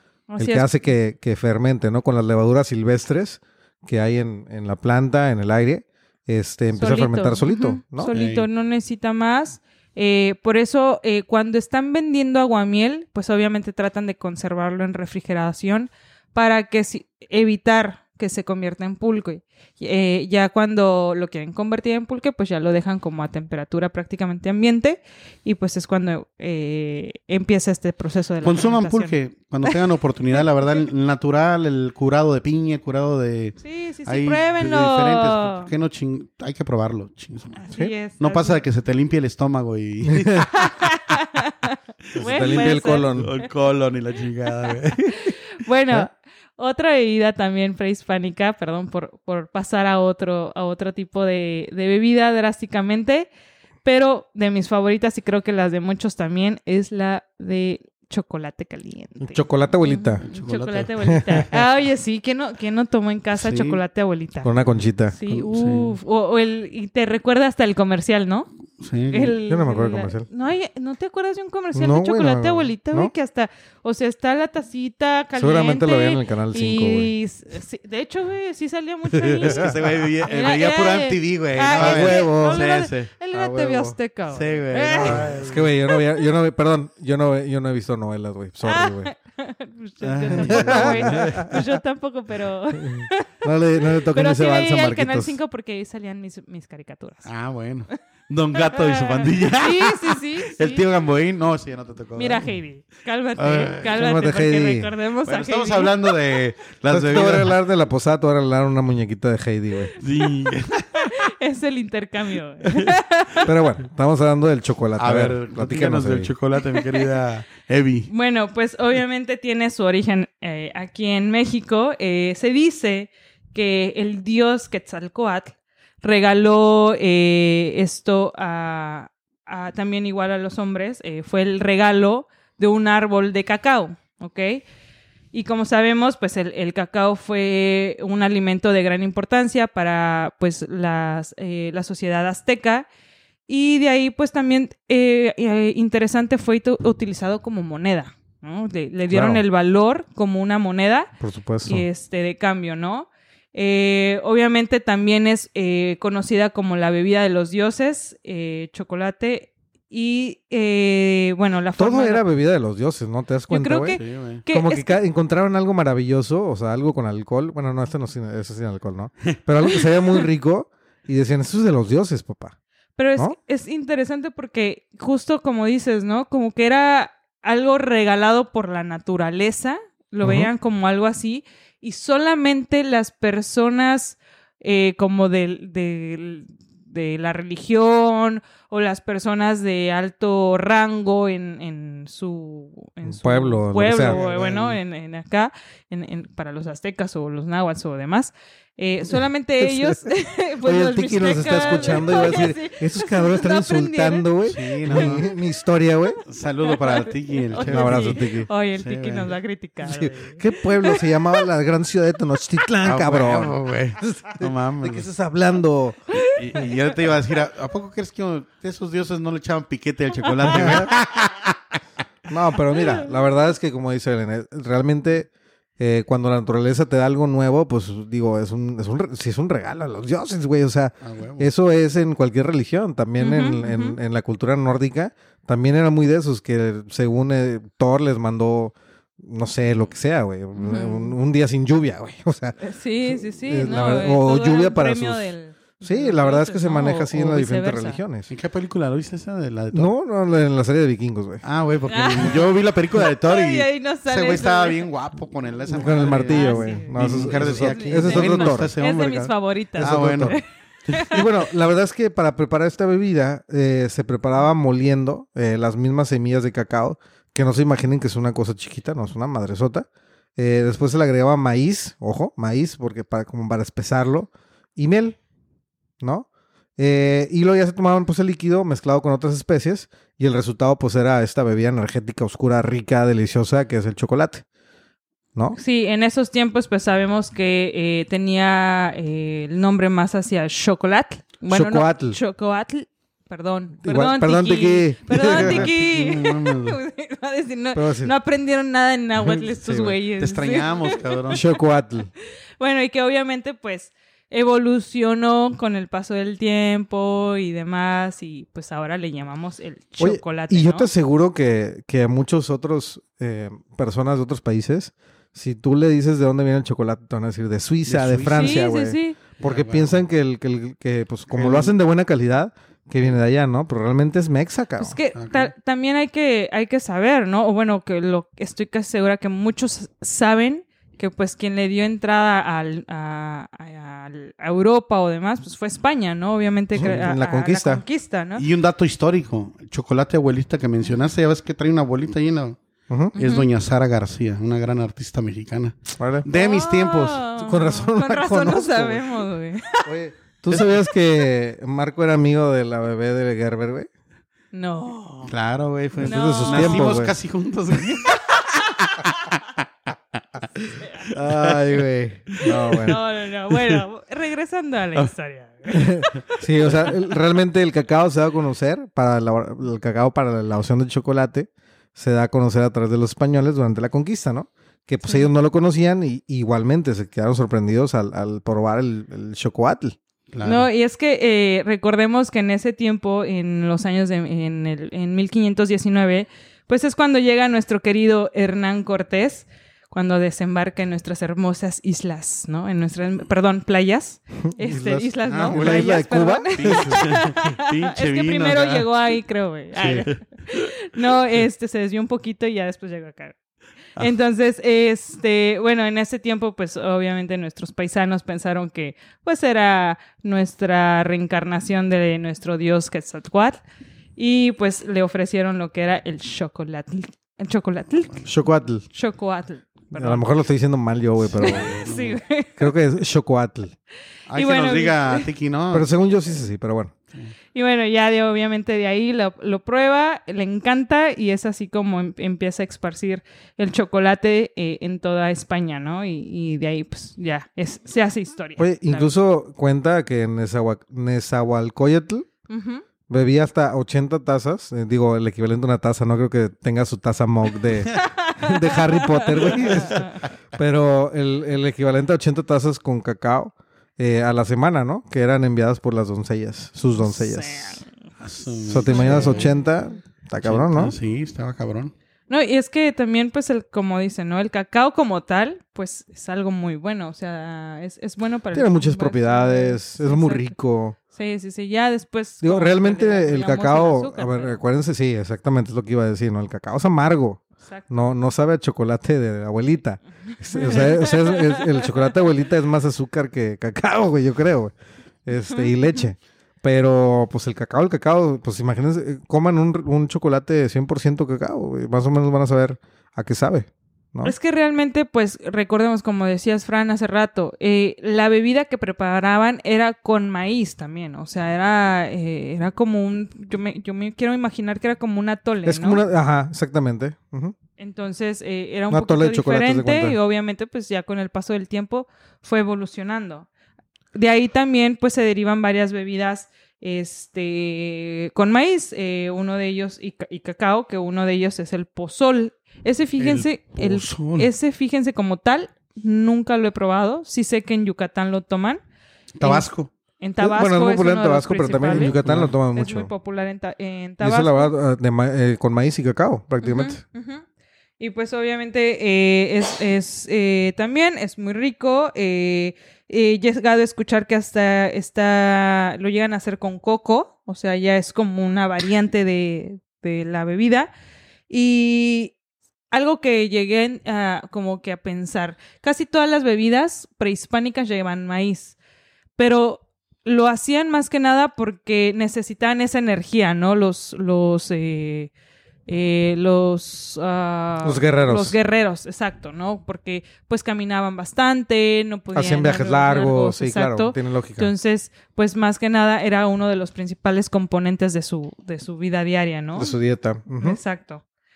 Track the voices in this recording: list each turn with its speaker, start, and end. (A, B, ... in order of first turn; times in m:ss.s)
0:00.3-0:00.7 A
0:00.4-0:08.1 B
0:06.8-0:29.8 A
0:08.1-0:08.5 C
0:28.4-0:40.7 C
0:33.6-0:35.7 A
0:37.6-0:38.6 A
0:40.5-0:43.1 A
0:42.1-0:45.4 C
0:42.2-0:43.3 B
0:44.9-0:53.3 A
0:53.8-1:04.5 A
0:59.2-1:00.2 B
1:00.2-1:00.9 C
1:01.0-1:01.5 B
1:03.4-1:03.8 C
1:04.4-1:05.2 B
1:05.1-1:08.5 A
1:05.3-1:06.0 C
1:08.8-1:09.4 C
1:09.1-1:25.3 A
1:09.5-1:10.3 B
1:11.7-1:13.1 B
1:15.4-1:17.1 B
1:19.2-1:19.7 B
1:19.4-1:23.1 C
1:21.7-1:22.6 B
1:23.3-1:24.0 B
1:24.3-1:25.7 C
1:25.0-1:29.1 B
1:28.6-1:33.3 A
1:30.0-1:31.6 C
1:30.4-1:31.7 B
1:32.8-1:35.3 B
1:34.1-1:37.3 A
1:37.2-1:42.5 C
1:38.6-1:40.8 A
1:42.2-1:46.0 A
1:43.4-1:43.9 C
1:43.9-1:44.9 B
1:45.3-1:47.6 C
1:46.9-1:50.0 B
1:50.0-1:51.2 C
1:51.0-1:53.5 A
1:53.4-1:56.3 B
1:55.0-1:58.1 C
1:56.7-1:57.0 A
1:58.1-2:14.6 A
2:15.3-2:22.9 A
2:23.5-2:31.1 A
2:29.1-2:29.4 B
2:31.2-2:31.8 B
2:31.6-2:42.2 A
2:41.8-2:44.0 B
2:43.5-2:45.0 A
2:43.9-2:44.4 C
2:44.5-2:52.6 B
2:53.0-3:25.3 A
3:00.2-3:00.5 B
3:13.1-3:14.2 B
3:13.9-3:14.8 C
3:19.6-3:20.0 B
3:20.6-3:26.2 B
3:21.5-3:22.2 C
3:24.4-3:25.3 C
3:26.3-3:28.2 C
3:26.6-3:31.4 A
3:27.7-3:28.5 B
3:28.8-3:29.4 C
3:29.8-3:36.0 B
3:32.8-3:35.1 C
3:36.1-3:36.8 A
3:36.4-3:41.6 C
3:40.4-3:40.9 B
3:42.3-4:08.3 B
3:51.0-3:51.5 C
3:53.2-3:54.0 A
4:00.6-4:01.2 A
4:02.6-4:08.0 A
4:08.3-4:09.9 C
4:09.7-4:11.4 B
4:11.4-4:20.4 C
4:11.9-4:12.5 A
4:13.2-4:14.9 A
4:15.7-4:18.7 B
4:16.3-4:21.2 A
4:19.8-4:20.4 B
4:21.0-4:35.2 B
4:36.0-4:36.3 B
4:36.8-4:44.4 B
4:45.5-5:01.4 A
4:51.5-4:52.2 B
4:53.8-4:55.7 B
4:55.3-4:56.8 C
4:57.7-4:58.1 B
4:59.2-5:00.0 B
5:00.2-5:01.4 C
5:01.3-5:02.1 B
5:02.6-5:10.9 A
5:10.0-5:25.0 B
5:17.9-5:18.6 C
5:18.4-5:19.2 A
5:19.4-5:20.0 C
5:21.3-5:21.7 C
5:24.8-5:38.4 A
5:25.2-5:25.5 C
5:36.8-5:37.8 B
5:38.4-5:42.6 C
5:42.9-5:43.1 B
5:43.2-5:43.5 A
5:43.2-5:47.2 C
5:46.0-5:46.3 B
5:46.3-5:49.9 A
5:47.4-5:49.1 B
5:49.8-5:53.9 B
5:54.5-5:55.3 A
5:55.3-5:59.5 C
5:56.0-5:57.1 B
5:56.0-5:56.9 A
6:00.6-6:03.0 B
6:01.1-6:01.7 C
6:02.4-6:02.9 C
6:02.7-6:06.9 A
6:03.5-6:03.8 C
6:05.7-6:20.0 B
6:15.0-6:15.3 A
6:20.3-6:20.7 C
6:20.4-6:43.4 A
6:34.5-6:37.2 B
6:35.2-6:36.0 C
6:36.6-6:38.9 C
6:39.8-6:40.6 C
6:44.0-6:53.6 A
6:54.2-6:58.3 A
6:58.2-6:58.9 B
6:58.9-7:00.3 A
7:00.0-7:01.8 B
7:01.2-7:02.2 C
7:01.4-7:02.7 A
7:02.6-7:03.8 B
7:04.3-7:05.9 C
7:04.4-7:05.3 A
7:05.7-7:06.9 B
7:07.5-7:19.1 A
7:18.6-7:22.3 B
7:22.5-7:22.8 A
7:23.1-7:37.8 B
7:28.0-7:30.2 A
7:37.0-7:37.9 A
7:38.2-7:39.5 C
7:38.7-7:41.0 B
7:38.9-7:39.5 A
7:40.4-7:41.9 C
7:42.3-7:50.6 A
7:48.5-7:51.0 B
7:51.1-7:54.6 A
7:52.4-8:04.7 B
7:57.6-7:57.9 A
8:00.5-8:01.9 A
8:05.2-8:14.3 B
8:05.4-8:05.7 A
8:14.2-8:26.0 A
8:25.6-8:27.6 B
8:27.8-8:33.5 A
8:28.9-8:30.2 B
8:34.1-8:48.8 A
8:43.2-8:44.5 C
8:49.4-8:49.9 C
8:49.4-8:49.7 A
8:50.2-8:52.2 A
8:50.4-8:53.1 B
8:51.9-8:52.5 C
8:52.7-8:54.7 A
8:54.2-8:57.0 B
8:56.6-8:57.4 A
8:58.0-9:10.9 A
9:11.5-9:12.4 A
9:12.9-9:18.8 A
9:19.4-9:25.3 A
9:25.9-9:39.9 A
9:27.8-9:28.6 B
9:32.3-9:34.7 B
9:39.8-9:40.8 B
9:40.6-9:41.2 A